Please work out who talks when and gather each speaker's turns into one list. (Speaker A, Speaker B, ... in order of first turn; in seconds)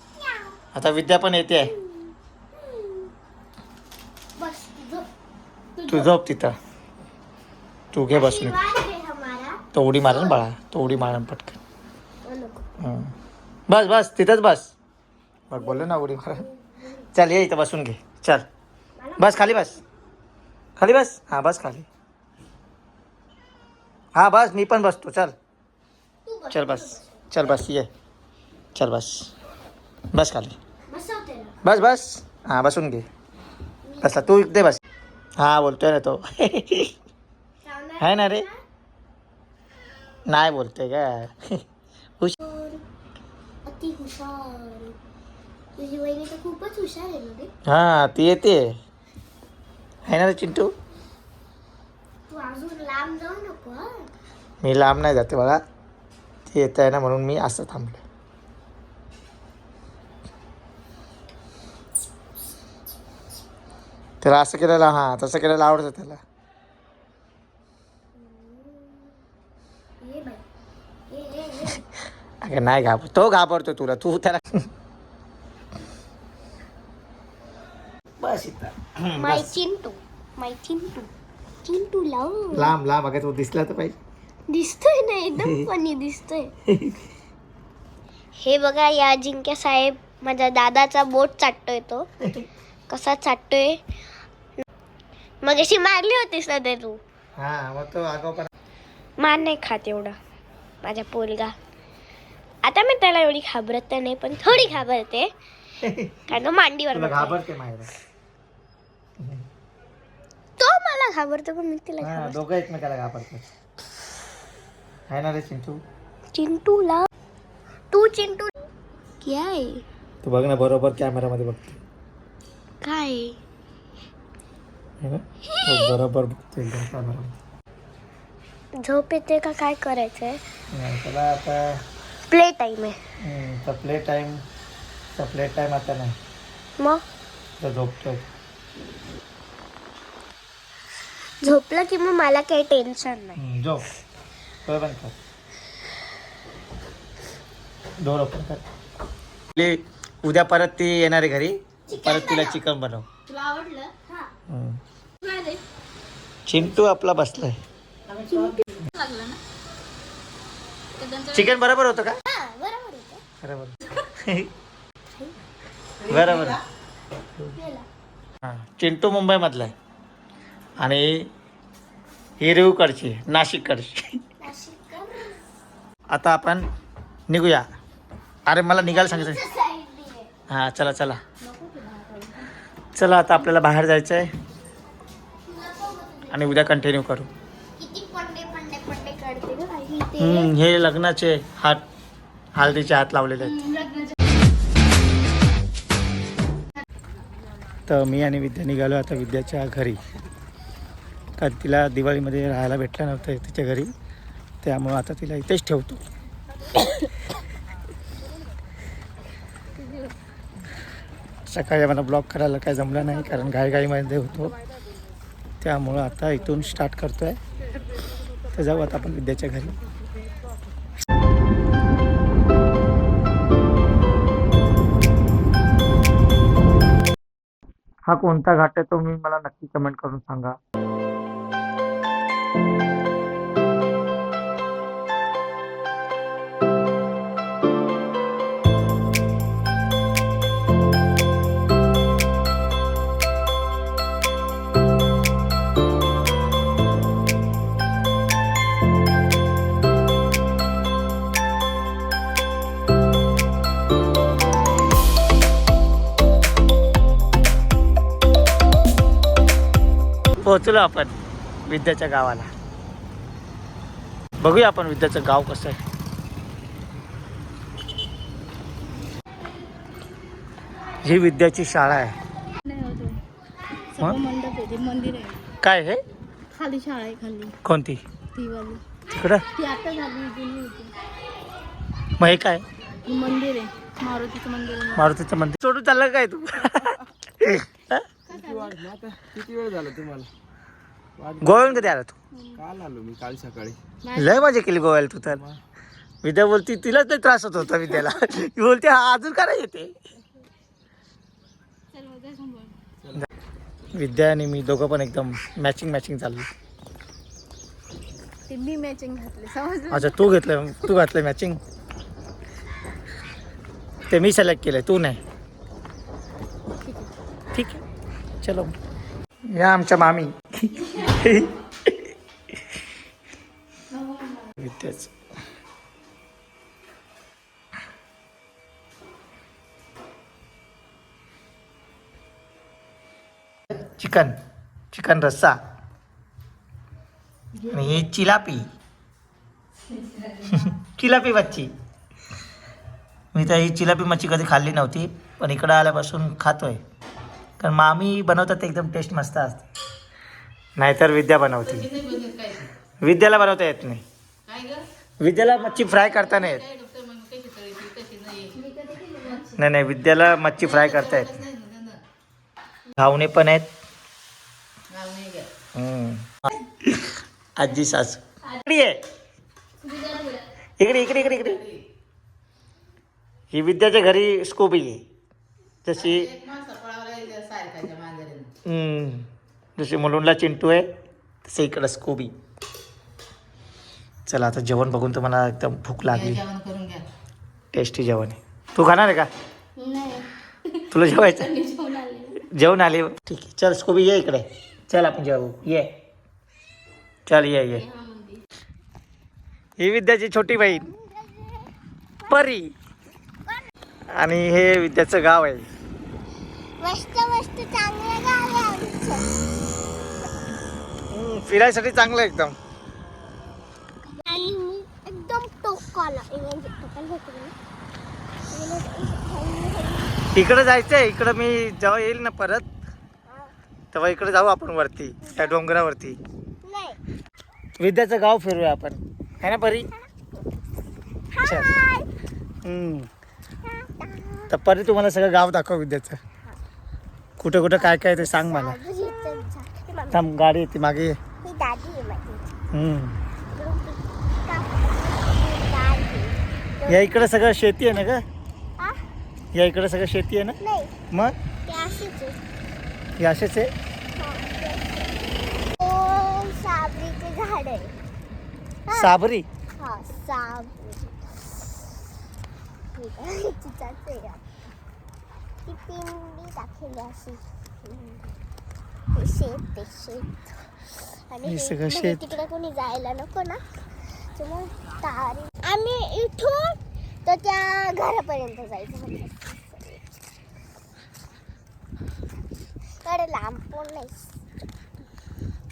Speaker A: 0.2-0.6, 1.6-3.1, 4.4-5.1, 8.1-10.4, 12.2-12.6, 15.6-17.0, 19.0-19.8, 26.2-27.5, 30.9-31.6, 33.9-34.4, 37.6-38.6, 42.4-42.8, 43.6-45.0, 45.8-47.5, 52.3-54.1, 68.2-69.2, 70.0-70.4, 71.1-71.8, 79.2-81.1, 81.6-82.8, 84.5-86.5, 88.4-92.1, 92.9-93.8, 95.4-97.0, 99.2-100.2, 100.8-101.5, 102.6-105.3, 106.3-107.4, 110.6-112.4, 116.3-117.1, 117.9-118.5, 119.2-119.8, 122.8-123.4, 125.4-126.0, 128.8-130.4, 132.3-133.0, 136.8-137.0, 141.4-143.4, 151.9-152.6, 162.2-163.2, 167.5-167.8, 174.4-175.4, 178.8-180.3, 185.5-186.6, 187.8-190.5, 400.6-402.5, 406.8-409.3, 414.1-417.5, 418.5-420.2, 423.3-423.5, 425.2-425.6, 426.6-427.0, 429.9-430.3, 431.3-432.1, 433.6-434.5, 437.5-440.2, 441.4-442.5, 443.5-447.3, 450.6-450.9, 451.7-452.4, 454.2-455.1, 455.8-457.9, 458.9-459.1, 459.8-461.8, 462.9-464.4, 465.6-468.4, 469.1-470.3, 470.9-480.1, 483.0-484.4
Speaker B: 0.7-1.7, 5.9-6.6, 7.9-8.6, 9.7-11.6, 12.8-13.1, 13.7-14.7, 15.5-16.4, 17.1-18.4, 19.2-19.8, 20.8-21.9, 24.1-25.3, 26.5-27.9, 28.8-29.3, 30.1-30.6, 31.6-33.1, 34.0-34.8, 35.4-36.9, 38.0-38.5, 40.3-41.6, 47.7-48.7, 50.1-50.7, 54.6-55.6, 56.5-58.0, 64.2-66.2, 72.4-74.7, 78.2-79.5, 82.5-84.0, 86.7-87.0, 97.4-98.5, 105.8-106.2, 106.9-107.9, 112.0-113.5, 115.1-115.8, 120.2-121.8, 125.0-127.3, 130.7-131.8, 133.2-134.4, 135.1-136.2, 137.6-138.3, 143.4-143.8, 144.7-145.2, 148.0-148.6, 149.6-153.1, 154.5-154.8, 156.5-157.6, 161.3-162.2, 163.4-164.5, 166.1-166.6, 168.4-169.7, 170.8-171.3, 172.4-174.2, 176.1-176.7, 177.3-177.7, 178.5-179.4, 180.5-181.2, 182.9-184.3, 186.3-187.3, 190.2-191.8, 192.6-193.7, 197.9-200.0, 201.4-203.9, 204.6-206.0, 211.5-214.6, 215.6-217.4, 218.5-219.8, 228.1-230.6, 260.4-261.1, 261.7-262.5, 264.4-265.8, 271.0-272.2, 275.6-276.0, 277.6-278.0, 279.1-279.4, 282.2-282.6, 285.0-288.1, 291.4-292.1, 294.2-295.5, 296.2-299.9, 303.9-306.5, 309.9-311.6, 314.1-315.2, 317.5-317.8, 318.4-318.8, 319.5-322.1, 324.6-325.1, 333.8-334.4, 334.9-335.6, 337.7-338.7, 340.5-341.7, 343.3-346.8, 347.6-349.6, 350.8-352.0, 353.0-354.1, 355.2-356.6, 359.6-361.4, 363.0-363.7, 365.7-369.1, 370.8-371.6, 373.5-375.1, 375.9-376.3, 378.6-380.9, 381.5-382.3, 384.3-386.4, 387.7-389.3, 390.9-391.5, 392.5-395.9, 397.3-397.9, 399.8-400.9, 402.3-402.7, 404.1-405.7, 411.1-412.6, 420.3-422.7, 423.9-426.2, 427.8-429.9, 431.4-431.8, 432.6-433.1, 434.5-436.2, 437.4-438.8, 440.1-441.2, 442.7-443.2, 446.9-448.2, 449.5-450.6, 453.2-453.7, 458.9-459.5, 471.5-472.2
Speaker C: 153.3-153.9, 155.3-155.6, 158.2-159.4, 161.0-161.6, 181.4-182.5, 193.7-194.1, 272.6-273.2, 273.9-275.4, 276.5-277.6, 278.3-278.8, 279.6-281.0, 283.1-285.1, 288.3-288.8, 292.4-292.6, 294.0-294.5, 301.9-302.8, 308.5-310.1, 316.8-317.1, 323.9-324.5, 351.7-352.7, 354.5-354.9, 355.8-359.6, 360.6-362.0, 364.9-365.5, 369.8-370.5, 376.1-378.5, 386.3-387.1, 389.8-392.4, 397.7-398.4
Speaker D: 288.3-290.3, 291.2-291.9, 292.6-293.8